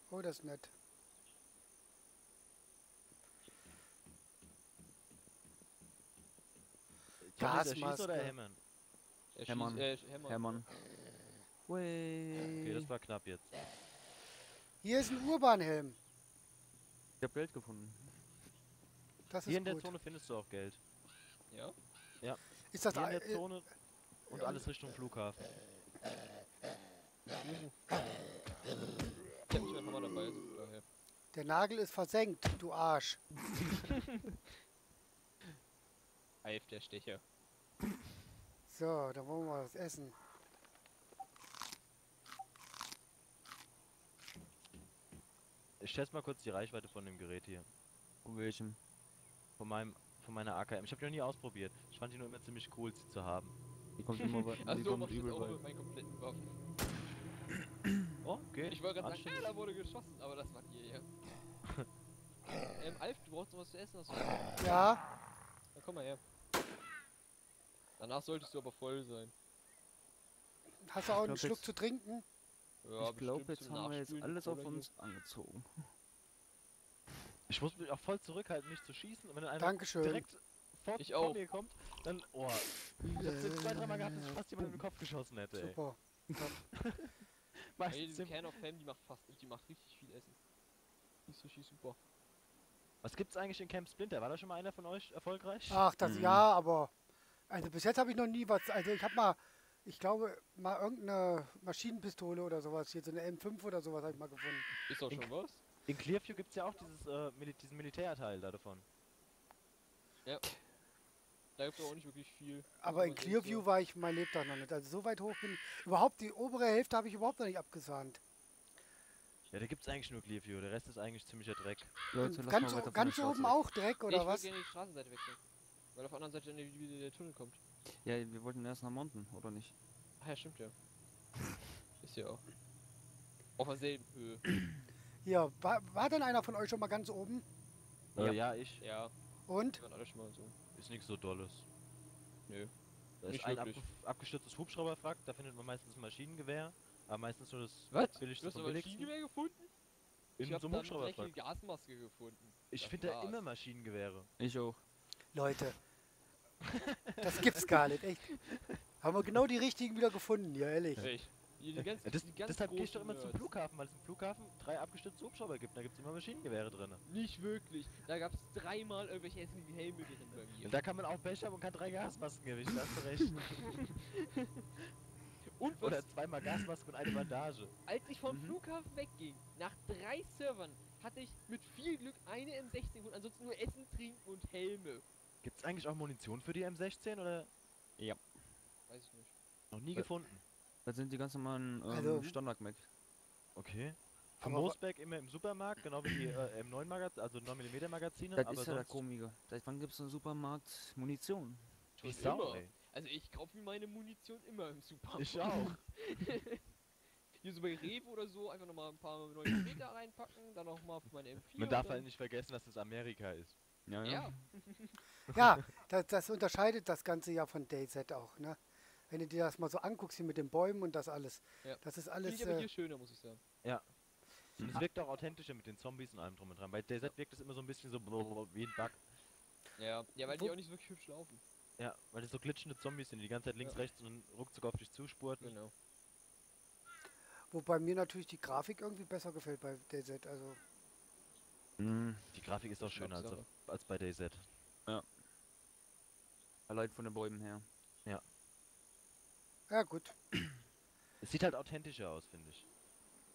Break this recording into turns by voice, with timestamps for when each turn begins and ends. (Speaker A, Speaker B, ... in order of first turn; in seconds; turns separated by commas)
Speaker A: 0.1-0.7, Speaker B: 7.2-8.6, Speaker A: 7.4-8.3, Speaker C: 9.3-10.7, Speaker D: 9.5-10.7, Speaker D: 11.7-12.9, Speaker B: 12.5-13.6, Speaker A: 14.8-16.0, Speaker D: 17.2-18.2, Speaker A: 19.3-19.9, Speaker B: 19.5-20.8, Speaker C: 21.5-21.8, Speaker B: 22.2-23.7, Speaker A: 22.7-23.5, Speaker A: 24.3-24.7, Speaker B: 24.3-25.5, Speaker C: 27.4-27.7, Speaker C: 29.5-30.8, Speaker A: 31.3-33.2, Speaker C: 36.4-37.2, Speaker A: 38.7-40.2, Speaker B: 45.8-47.7, Speaker D: 48.2-48.8, Speaker B: 49.6-53.6, Speaker D: 54.0-55.6, Speaker C: 54.2-56.6, Speaker B: 58.2-59.5, Speaker C: 58.6-61.1, Speaker C: 62.7-64.8, Speaker A: 64.6-65.0, Speaker C: 65.8-66.2, Speaker C: 68.0-69.3, Speaker A: 70.8-72.2, Speaker D: 71.1-71.7, Speaker C: 72.8-74.9, Speaker D: 73.0-75.9, Speaker B: 77.5-85.8, Speaker A: 79.6-80.3, Speaker C: 81.0-81.4, Speaker A: 85.5-86.6, Speaker B: 86.8-88.4, Speaker C: 87.9-90.4, Speaker C: 91.3-92.0, Speaker B: 93.0-95.9, Speaker A: 95.7-96.9, Speaker D: 96.0-96.5, Speaker A: 97.5-104.7, Speaker C: 104.9-105.6, Speaker B: 105.9-108.8, Speaker C: 111.6-113.7, Speaker A: 112.8-118.2, Speaker B: 119.5-121.9, Speaker D: 122.1-123.6, Speaker A: 122.2-124.5, Speaker C: 124.1-125.4, Speaker C: 126.0-127.6, Speaker D: 128.0-129.8, Speaker C: 130.2-130.7, Speaker C: 132.0-132.4, Speaker C: 133.6-134.4, Speaker A: 135.2-137.4, Speaker B: 138.2-138.8, Speaker C: 138.8-139.1, Speaker A: 139.5-139.8, Speaker C: 139.7-140.6, Speaker B: 140.8-141.7, Speaker C: 142.5-142.7, Speaker B: 143.2-149.1, Speaker C: 143.3-143.9, Speaker C: 147.9-149.7, Speaker B: 150.4-151.3, Speaker C: 150.4-153.4, Speaker B: 152.7-154.3, Speaker D: 154.4-154.8, Speaker A: 155.3-155.8, Speaker B: 157.2-157.8, Speaker A: 157.2-158.3, Speaker A: 159.0-161.1, Speaker C: 161.0-163.5, Speaker B: 162.0-167.0, Speaker C: 167.1-170.8, Speaker B: 170.6-173.9, Speaker C: 175.5-176.1, Speaker B: 175.8-177.7, Speaker C: 177.9-185.1, Speaker D: 178.3-178.6, Speaker B: 185.4-187.5, Speaker D: 188.0-188.3, Speaker C: 188.9-189.3, Speaker B: 189.7-190.4, Speaker D: 190.8-192.9, Speaker A: 191.9-192.4, Speaker B: 193.6-199.0, Speaker A: 194.4-194.8, Speaker D: 198.4-201.8, Speaker B: 202.0-202.7, Speaker C: 202.0-206.6, Speaker B: 205.2-205.8, Speaker C: 207.4-212.1, Speaker B: 211.6-213.6, Speaker D: 213.9-214.4, Speaker C: 214.0-215.0, Speaker A: 215.3-222.7, Speaker C: 221.6-223.4, Speaker B: 223.6-223.9, Speaker B: 224.6-229.1, Speaker C: 229.8-231.4, Speaker A: 230.3-230.6, Speaker B: 231.8-235.6, Speaker C: 235.4-235.7, Speaker A: 237.5-240.6, Speaker D: 241.8-242.3, Speaker B: 242.3-244.5, Speaker C: 242.8-243.5, Speaker D: 246.7-247.7, Speaker A: 249.7-250.1, Speaker B: 251.2-252.7